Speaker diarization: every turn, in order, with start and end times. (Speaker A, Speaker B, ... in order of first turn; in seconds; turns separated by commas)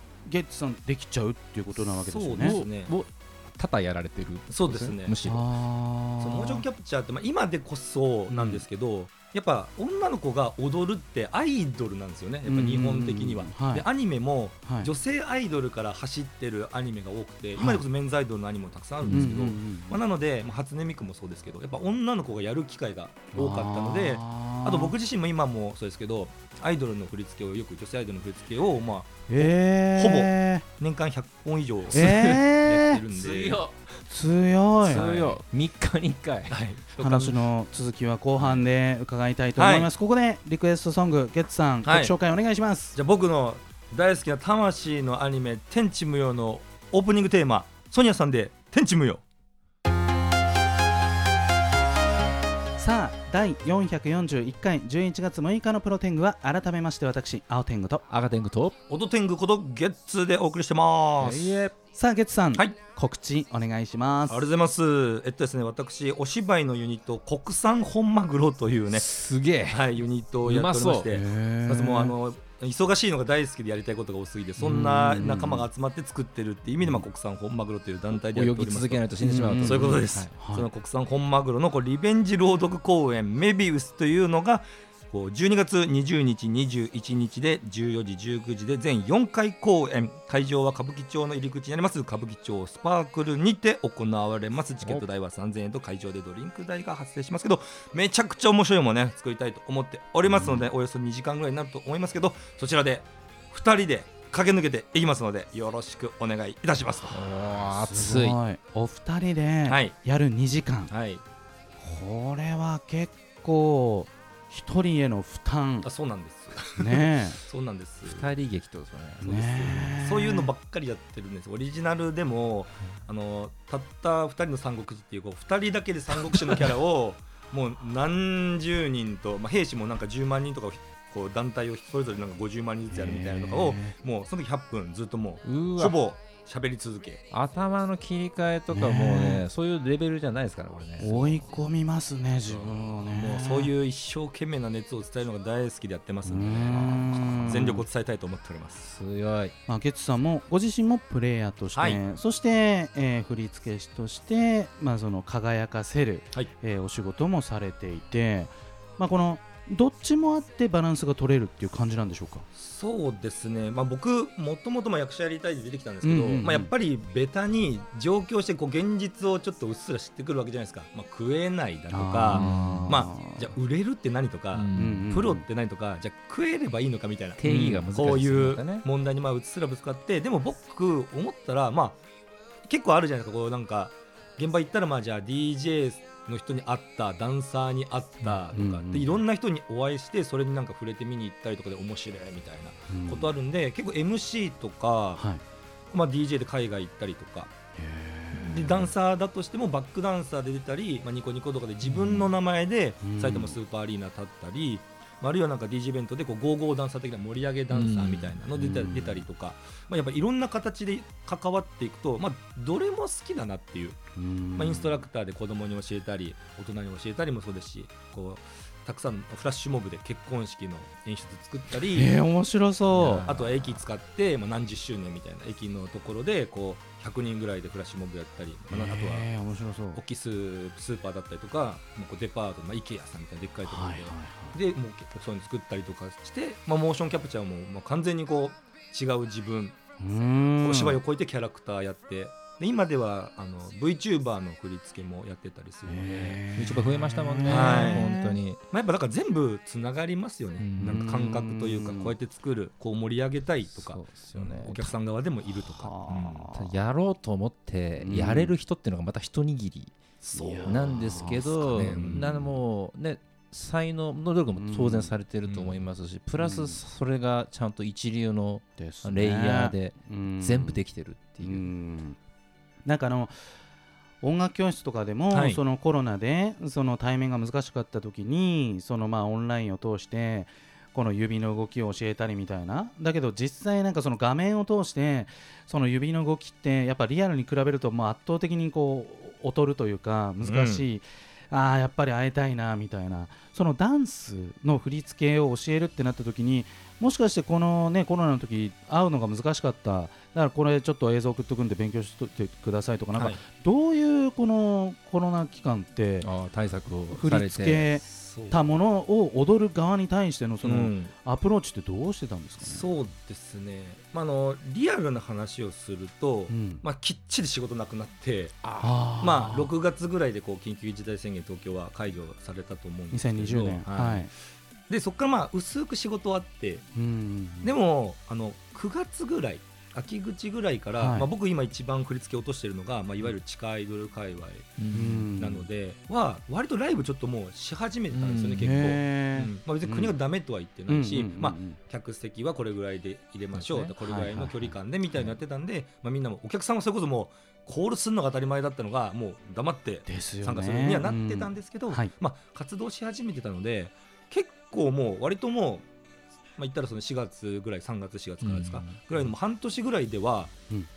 Speaker A: 0.2-2.6, Speaker B: 1.9-2.9, Speaker C: 2.4-5.5, Speaker B: 4.5-5.2, Speaker A: 5.2-6.6, Speaker B: 6.2-33.7, Speaker A: 8.3-8.6, Speaker A: 12.4-13.8, Speaker A: 17.6-17.8, Speaker C: 19.0-19.3, Speaker A: 19.1-20.0, Speaker A: 23.3-24.9, Speaker A: 29.3-30.6, Speaker A: 31.9-33.0, Speaker C: 32.0-32.3, Speaker C: 33.1-33.7, Speaker A: 34.1-35.3, Speaker C: 34.8-36.6, Speaker B: 36.5-37.4, Speaker A: 37.0-43.0, Speaker B: 39.6-39.9, Speaker B: 41.8-42.1, Speaker B: 42.9-49.2, Speaker A: 52.8-58.0, Speaker C: 58.1-58.8, Speaker B: 58.9-61.6, Speaker C: 61.2-61.7, Speaker A: 61.9-64.4, Speaker B: 64.3-69.1, Speaker C: 68.9-69.8, Speaker B: 69.7-107.2, Speaker C: 70.4-71.2, Speaker A: 71.1-72.1, Speaker A: 74.6-75.7, Speaker C: 78.2-80.3, Speaker A: 79.2-80.7, Speaker C: 107.1-108.4, Speaker A: 107.7-110.9, Speaker B: 109.7-109.9, Speaker B: 110.9-111.2, Speaker A: 111.8-115.9, Speaker B: 115.8-118.3, Speaker A: 116.7-117.4, Speaker C: 118.0-119.9, Speaker A: 119.2-120.5, Speaker B: 119.3-137.2, Speaker A: 132.9-133.9, Speaker C: 135.4-135.9, Speaker C: 137.3-141.5, Speaker A: 138.7-139.4, Speaker A: 141.0-143.7, Speaker B: 142.5-148.9, Speaker A: 146.2-147.8, Speaker C: 148.9-149.5, Speaker A: 149.7-162.4, Speaker B: 151.7-152.0, Speaker B: 162.5-182.0, Speaker A: 166.0-166.7, Speaker A: 171.9-173.5, Speaker C: 172.3-173.1, Speaker C: 174.5-175.1, Speaker A: 174.8-175.4, Speaker C: 177.4-178.8, Speaker A: 177.5-177.8, Speaker B: 182.7-195.2, Speaker A: 188.5-189.2, Speaker A: 192.9-193.3, Speaker A: 195.2-195.4, Speaker B: 195.9-197.5, Speaker A: 197.8-198.9, Speaker B: 198.3-214.0, Speaker A: 203.0-203.6, Speaker C: 207.7-208.4, Speaker A: 208.6-209.2, Speaker A: 214.2-215.0, Speaker B: 214.6-222.1, Speaker A: 221.9-223.3, Speaker C: 222.9-223.8, Speaker B: 223.1-229.3, Speaker A: 228.7-230.0, Speaker B: 229.9-239.8, Speaker A: 233.6-234.6, Speaker A: 240.0-241.0, Speaker B: 240.6-246.4, Speaker A: 245.8-248.4, Speaker C: 246.6-248.6, Speaker B: 247.4-248.1, Speaker B: 248.7-256.4, Speaker C: 250.6-251.1, Speaker A: 250.8-252.1, Speaker C: 253.7-254.9, Speaker A: 255.8-256.7, Speaker C: 256.5-259.9, Speaker A: 258.0-258.5, Speaker B: 260.2-262.5, Speaker A: 260.3-261.4, Speaker C: 260.6-271.7, Speaker A: 264.6-265.1, Speaker B: 265.4-265.8, Speaker A: 266.4-266.8, Speaker A: 268.8-270.8, Speaker A: 271.4-272.2, Speaker A: 272.8-273.4, Speaker A: 274.2-306.3, Speaker B: 275.3-275.6, Speaker B: 290.4-290.8, Speaker C: 306.2-307.9, Speaker A: 307.1-312.8, Speaker B: 308.1-308.6, Speaker B: 310.6-311.1, Speaker B: 312.6-324.3, Speaker A: 316.5-316.8, Speaker C: 318.6-318.9, Speaker A: 318.8-319.7, Speaker A: 323.1-324.3, Speaker B: 324.9-326.8, Speaker A: 326.9-327.7, Speaker B: 327.6-334.8, Speaker A: 331.0-331.3, Speaker C: 334.8-335.3, Speaker A: 334.9-335.7, Speaker B: 335.4-355.8, Speaker C: 338.1-338.9, Speaker A: 338.6-340.1, Speaker A: 340.9-341.8, Speaker C: 343.5-343.9, Speaker A: 344.0-344.7, Speaker A: 350.1-352.1, Speaker B: 356.6-360.5, Speaker C: 358.4-359.3